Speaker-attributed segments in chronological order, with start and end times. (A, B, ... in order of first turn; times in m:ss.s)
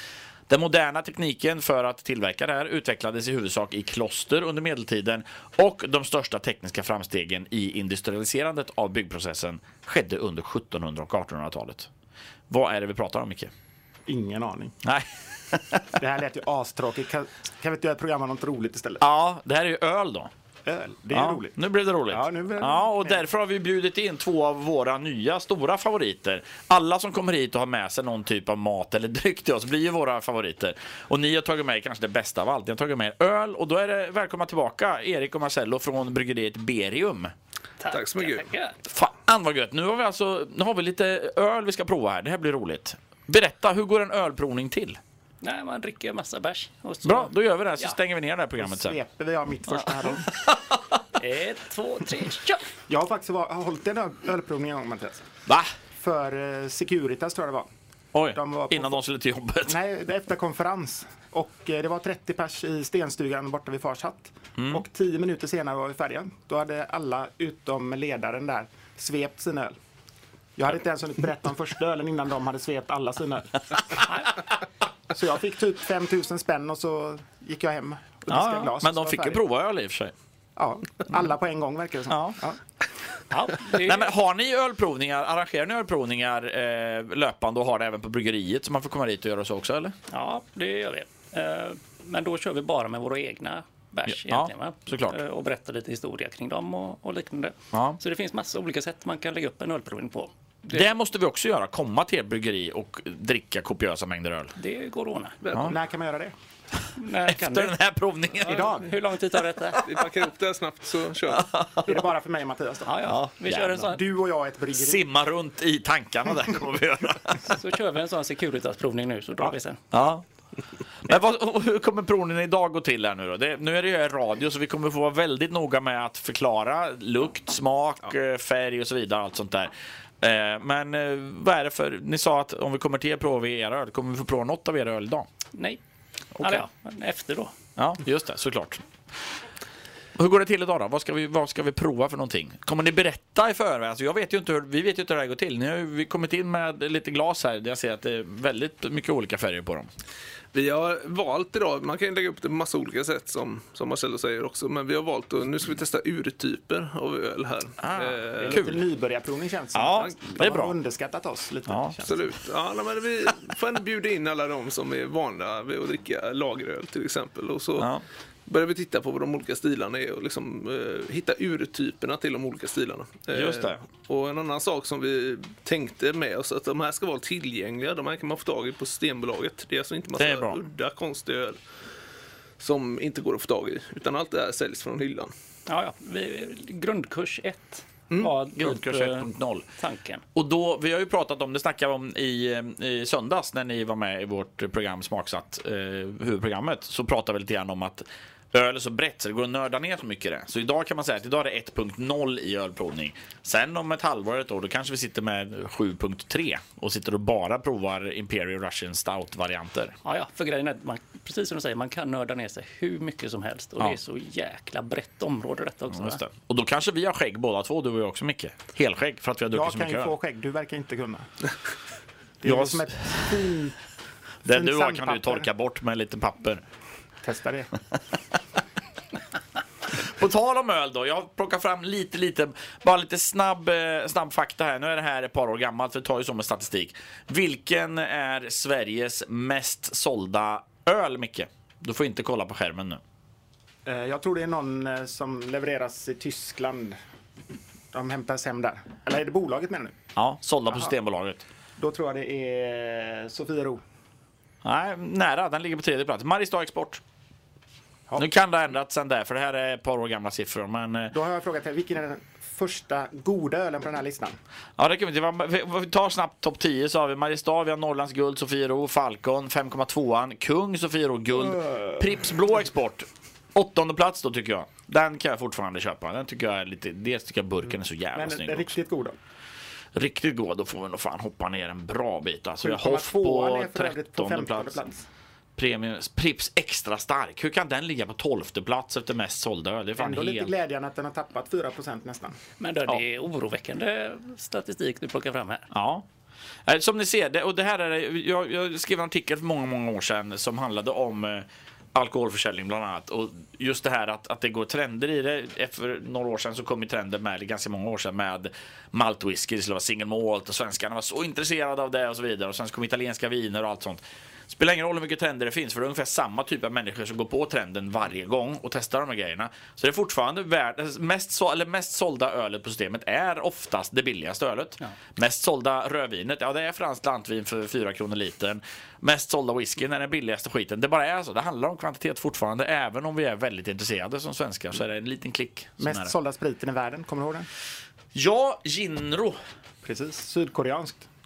0:00.5-0:11.9 A
0:12.5-0:13.5 A
0:14.0-0:14.8 B
0:14.8-0:16.0 A
0:16.0-0:19.0 B
0:19.0-0:20.3 A
0:20.6-0:21.5 B
0:21.1-0:37.3 A
0:22.1-0:23.2 B
0:37.8-0:38.8 C
0:37.9-0:38.5 D
0:38.9-0:45.0 A
0:45.4-0:48.0 C
0:47.0-0:49.0 A
0:48.6-0:50.4 B
0:49.7-0:51.0 A
0:51.1-0:52.6 C
0:52.9-0:55.2 B
0:55.5-0:55.7 A
0:56.0-0:57.7 B
0:58.1-0:59.8 A
0:58.3-0:59.0 B
0:59.7-1:09.8 B
1:04.6-1:04.8 A
1:10.6-1:14.1 B
1:14.1-1:14.3 C
1:15.1-1:19.4 B
1:18.3-1:20.1 A
1:20.6-1:22.6 B
1:22.1-1:22.4 A
1:23.3-1:24.1 C
1:23.7-1:30.0 A
1:30.1-1:40.8 C
1:34.1-1:35.2 A
1:37.7-1:38.0 A
1:40.7-1:44.5 A
1:44.6-1:45.4 C
1:45.4-1:45.8 D
1:45.5-1:45.8 A
1:45.6-1:46.3 B
1:47.0-1:47.7 C
1:47.2-1:48.9 A
1:48.4-1:49.8 C
1:48.5-1:48.8 B
1:49.8-1:51.5 D
1:51.3-1:52.0 A
1:51.8-1:53.0 B
1:52.9-1:54.0 C
1:53.0-1:53.9 A
1:53.8-1:55.0 B
1:54.7-1:57.6 A
1:57.4-1:59.8 C
1:59.9-2:00.2 A
2:01.0-2:15.3 A
2:15.5-2:15.8 C
2:16.4-2:16.6 A
2:16.4-2:17.5 C
2:17.8-2:18.8 A
2:20.2-2:29.9 A
2:30.5-2:38.6 D
2:37.8-2:38.8 A
2:38.4-2:42.1 B
2:39.7-2:40.8 A
2:41.7-2:42.0 A
2:42.0-2:47.9 D
2:47.8-2:48.0 A
2:48.4-3:01.6 D
2:53.3-2:53.8 A
3:00.2-3:00.6 A
3:02.6-3:05.3 D
3:05.7-3:10.2 C
3:08.5-3:09.7 A
3:10.3-3:30.0 A
3:30.0-3:36.2 C
3:35.9-3:40.1 A
3:39.5-3:41.3 B
3:42.4-3:43.8 B
3:42.4-3:43.3 A
3:44.4-3:46.6 A
3:44.5-3:45.4 B
3:47.2-3:47.7 B
3:49.9-4:03.0 A
4:03.8-4:07.0 B
4:07.9-4:09.9 B
4:10.2-4:11.4 A
4:11.8-4:13.8 B
4:14.6-4:17.0 A
4:18.2-4:21.1 A
4:21.1-4:24.4 B
4:24.8-4:38.7 A
4:31.5-4:32.0 B
4:38.1-4:39.2 B
4:39.9-4:44.8 A
4:42.6-4:45.1 B
4:45.6-4:50.5 A
4:50.0-4:52.4 B
4:52.6-4:55.7 C
4:55.7-4:56.1 A
4:56.6-5:36.1 A
5:35.8-5:37.5 B
5:38.1-5:39.4 A
5:39.8-5:41.1 B